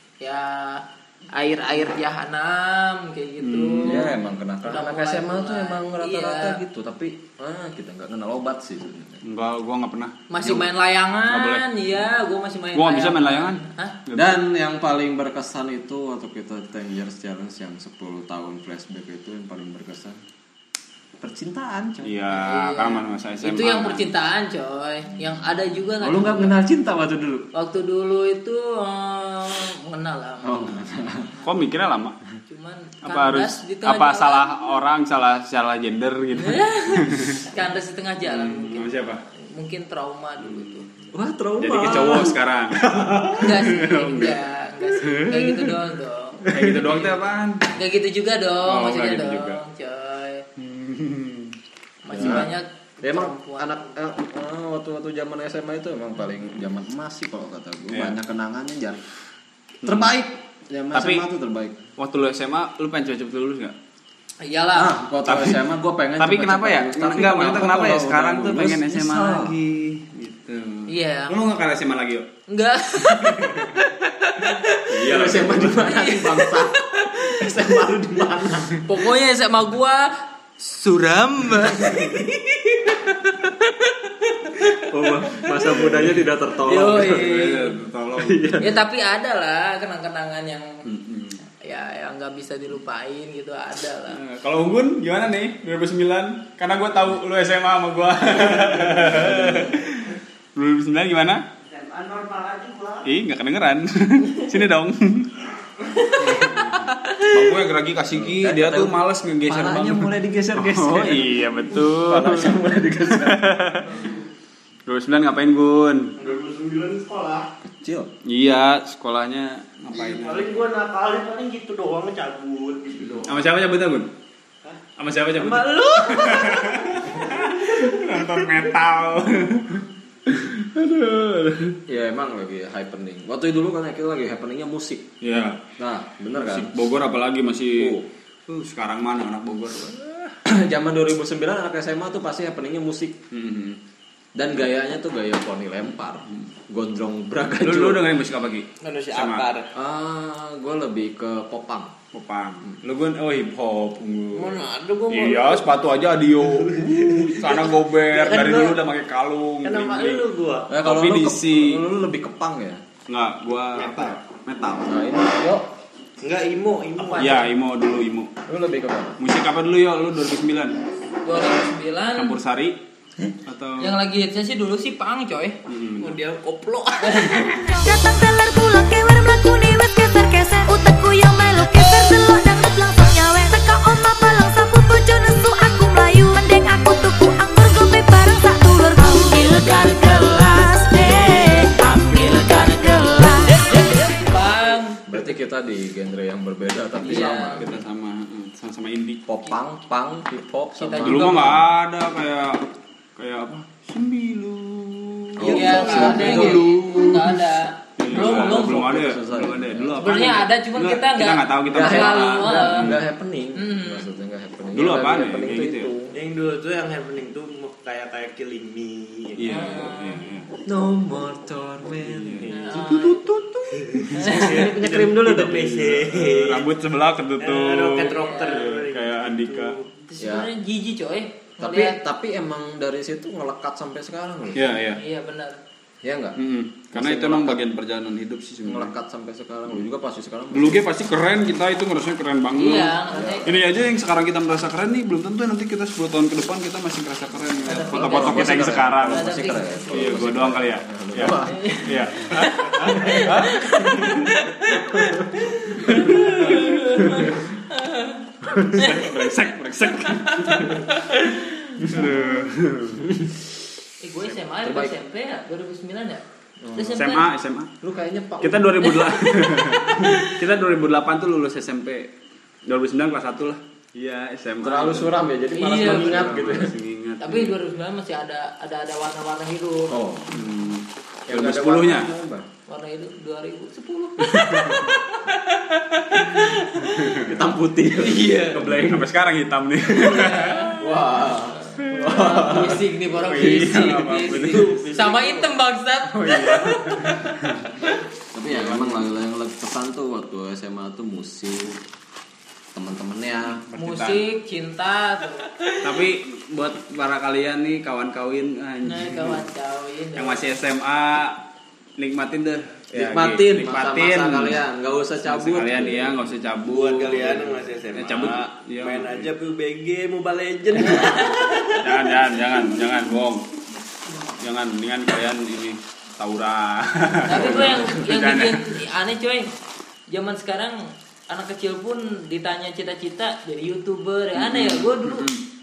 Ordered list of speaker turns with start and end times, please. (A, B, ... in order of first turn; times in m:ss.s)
0:00.2-0:04.1 A
0:03.4-0:04.1 B
0:03.8-0:09.2 C
0:04.6-0:06.6 A
0:09.2-0:10.7 B
0:10.3-0:14.0 A
0:11.3-0:11.7 B
0:12.7-0:14.4 B
0:14.1-0:20.2 C
0:21.2-0:22.1 C
0:22.0-0:24.1 B
0:22.3-0:26.6 A
0:26.0-0:27.5 C
0:27.5-0:30.8 A
0:30.4-0:31.3 C
0:31.4-0:32.2 B
0:32.5-0:34.6 A
0:33.0-0:37.4 B
0:36.4-0:40.9 A
0:38.2-0:39.2 B
0:40.4-0:40.9 B
0:41.1-0:42.4 C
0:41.6-0:45.8 B
0:42.9-0:43.3 C
0:43.3-0:50.4 A
0:46.4-0:47.7 B
0:46.5-0:46.7 C
0:48.6-0:49.6 B
0:50.6-0:51.5 B
0:52.0-0:53.9 A
0:52.1-0:52.5 B
0:52.1-0:52.5 C
0:53.0-0:59.0 C
0:57.9-0:58.2 B
0:59.8-1:01.8 C
1:00.9-1:01.2 B
1:02.0-1:03.7 B
1:04.4-1:05.0 A
1:04.7-1:09.6 C
1:05.2-1:05.7 B
1:06.2-1:12.3 B
1:10.9-1:11.4 A
1:12.5-1:14.9 A
1:13.0-1:13.8 B
1:14.9-1:16.0 B
1:15.0-1:18.8 C
1:15.7-1:17.7 A
1:18.8-1:25.8 A
1:24.9-1:27.4 C
1:25.6-1:28.8 B
1:26.6-1:27.7 A
1:28.2-1:28.7 C
1:28.6-1:30.8 A
1:30.8-1:31.4 B
1:31.5-1:34.2 A
1:34.1-1:41.4 B
1:38.9-1:39.8 C
1:41.6-1:43.1 D
1:43.0-1:45.3 B
1:45.9-1:47.5 A
1:46.2-1:53.9 B
1:48.1-1:53.8 C
1:54.8-1:56.1 B
1:56.2-1:57.5 D
1:57.6-1:58.1 C
1:58.2-2:00.6 B
1:59.9-2:03.4 D
2:03.2-2:04.1 B
2:05.0-2:11.8 B
2:05.3-2:08.6 D
2:11.9-2:15.1 C
2:15.2-2:15.6 B
2:15.8-2:16.8 C
2:16.3-2:18.0 B
2:17.8-2:18.0 C
2:18.5-2:20.3 B
2:20.4-2:23.2 C
2:23.3-2:23.8 B
2:24.4-2:28.1 C
2:27.6-2:29.4 B
2:28.8-2:29.7 D
2:29.7-2:31.9 C
2:32.1-2:40.2 B
2:34.3-2:38.8 D
2:39.6-2:40.7 D
2:40.7-2:42.8 C
2:40.8-2:41.8 B
2:43.1-2:45.0 B
2:43.7-2:44.2 D
2:44.8-2:45.7 C
2:46.2-2:47.5 D
2:47.2-2:48.3 B
2:48.5-2:49.2 C
2:49.2-2:50.8 B
2:51.2-2:52.4 A
2:52.2-2:52.8 B
2:53.4-2:53.9 B
2:53.8-2:55.6 A
2:55.7-2:56.2 B
2:56.0-2:57.3 D
2:57.0-2:57.7 A
2:57.3-2:57.6 B
2:57.6-3:14.1 E
3:13.5-3:15.0 A
3:15.0-3:17.8 C
3:17.0-3:17.6 A
3:17.0-3:19.2 B
3:19.2-3:21.6 C
3:20.8-3:21.6 A
3:21.0-3:27.3 B
3:25.4-3:27.2 C
3:25.4-3:28.8 A
3:28.0-3:33.0 B
3:28.0-3:30.1 C
3:30.0-3:33.0 A
3:31.7-3:36.1 C
3:33.6-3:34.1 A
3:34.7-3:35.9 B
3:36.1-3:39.8 D
3:39.4-3:40.5 B
3:39.5-3:40.2 A
3:40.6-3:43.3 C
3:42.0-3:44.2 B
3:42.4-3:42.8 D
3:42.5-3:43.3 A
3:43.7-3:46.7 D
3:44.2-3:44.7 A
3:44.3-3:45.6 C
3:45.2-3:49.8 B
3:47.4-3:49.8 D
3:48.1-3:48.6 A
3:50.1-3:52.0 A
3:50.2-3:50.5 C
3:51.6-3:54.8 C
3:54.5-3:55.0 B
3:54.9-3:55.6 A
3:56.0-3:56.4 C
3:56.4-3:58.9 B
3:56.9-3:57.6 C
3:58.6-4:00.8 C
4:00.5-4:14.4 B
4:02.6-4:03.5 A
4:03.1-4:03.6 C
4:07.7-4:10.3 A
4:07.7-4:12.0 C
4:11.3-4:19.2 A
4:15.0-4:15.5 C
4:15.8-4:17.3 B
4:16.0-4:16.3 C
4:18.6-4:20.8 B
4:19.9-4:22.0 A
4:21.8-4:23.1 B
4:21.9-4:22.2 C
4:23.0-4:23.4 C
4:24.0-4:26.2 A
4:24.6-4:24.9 C
4:26.6-4:27.0 C
4:26.7-4:27.3 A
4:26.9-4:27.7 B
4:27.8-4:28.8 C
4:28.4-4:32.1 B
4:28.8-4:30.3 A
4:32.7-4:35.2 B
4:34.6-4:36.7 C
4:35.5-4:36.4 A
4:35.7-4:37.5 B
4:37.2-4:39.9 A
4:39.9-4:40.5 C
4:40.3-4:42.1 B
4:41.3-4:42.5 C
4:42.7-4:47.2 A
4:44.2-4:45.0 B
4:46.8-4:47.4 B
4:47.2-4:49.1 C
4:47.9-4:48.6 A
4:48.5-4:50.9 B
4:49.9-4:50.8 A
4:50.8-4:52.8 C
4:51.6-4:58.0 A
4:51.8-4:52.3 B
4:53.1-4:54.9 B
4:54.2-4:55.5 D
4:56.1-4:57.7 B
4:58.3-5:01.8 C
4:58.5-4:59.0 B
5:02.7-5:03.6 C
5:03.6-5:04.2 B
5:03.8-5:06.0 A
5:05.8-5:09.4 B
5:08.8-5:10.5 A
5:10.2-5:11.4 B
5:12.0-5:14.6 B
5:12.9-5:16.2 C
5:15.2-5:19.3 B
5:16.6-5:21.8 D
5:20.8-5:21.8 A
5:21.8-5:23.4 B
5:24.4-5:28.8 B
5:27.2-5:29.5 A
5:27.4-5:28.0 C
5:30.1-5:35.3 A
5:34.3-5:35.4 B